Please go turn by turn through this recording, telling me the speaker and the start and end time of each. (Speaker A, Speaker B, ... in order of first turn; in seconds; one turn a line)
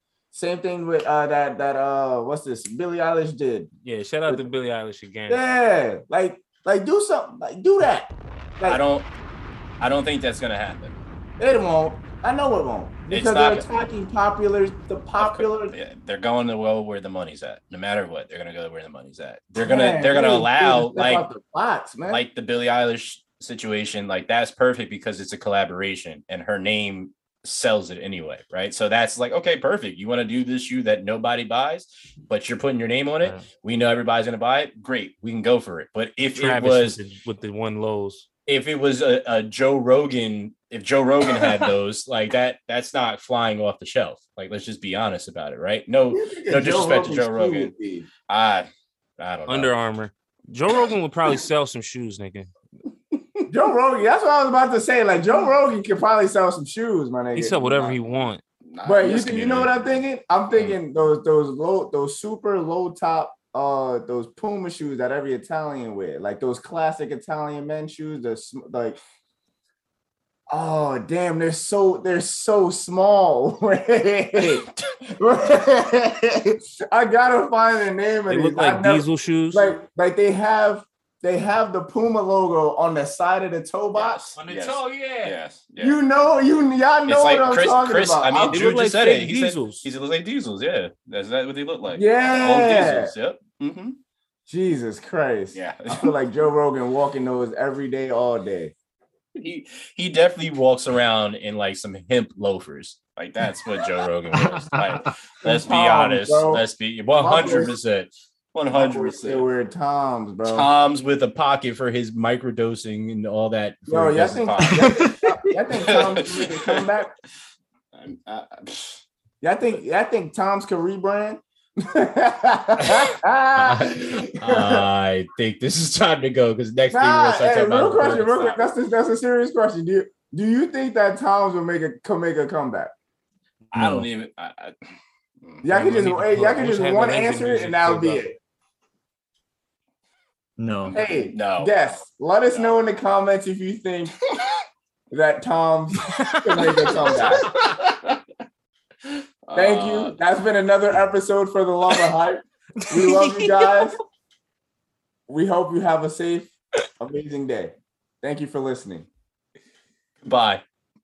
Speaker A: 0.3-3.7
Speaker B: 3.8-5.5
Speaker A: 5.3-8.8
Speaker C: 8.6-9.1
Speaker C: 9.8-11.0
Speaker A: 11.4-15.7
Speaker C: 13.1-13.7
Speaker C: 15.2-21.2
Speaker A: 19.6-22.2
Speaker C: 22.1-37.0
Speaker B: 36.2-38.3
Speaker C: 38.5-47.7
Speaker A: 46.1-48.1
Speaker C: 48.3-48.7
Speaker C: 49.2-49.7
Speaker B: 49.5-52.5
Speaker C: 50.7-51.4
Speaker A: 53.5-58.0
Speaker B: 57.3-58.4
Speaker C: 58.7-59.9
Speaker A: 58.8-69.0
Speaker C: 60.5-60.8
Speaker A: 70.5-84.2
Speaker C: 74.4-74.7
Speaker B: 78.3-79.7
Speaker C: 83.9-86.0
Speaker B: 84.3-85.3
Speaker A: 85.8-88.7
Speaker C: 87.1-94.0
Speaker B: 88.5-89.9
Speaker A: 91.9-93.1
Speaker A: 94.5-98.7
Speaker C: 95.5-96.1
Speaker C: 99.3-109.5
Speaker D: 104.4-105.1
Speaker A: 105.4-107.8
Speaker A: 108.7-110.7
Speaker C: 110.5-116.9
Speaker A: 113.9-117.1
Speaker D: 114.6-115.5
Speaker C: 117.9-119.0
Speaker A: 119.4-124.8
Speaker C: 122.8-128.6
Speaker A: 126.9-132.9
Speaker C: 133.7-134.8
Speaker A: 135.6-138.4
Speaker B: 135.7-138.2
Speaker D: 140.6-141.0
Speaker A: 140.9-144.2
Speaker C: 140.9-141.8
Speaker A: 145.1-147.5
Speaker B: 146.6-146.9
Speaker C: 147.0-148.2
Speaker C: 149.0-150.2
Speaker A: 149.5-153.9
Speaker A: 155.3-159.1
Speaker C: 160.2-160.6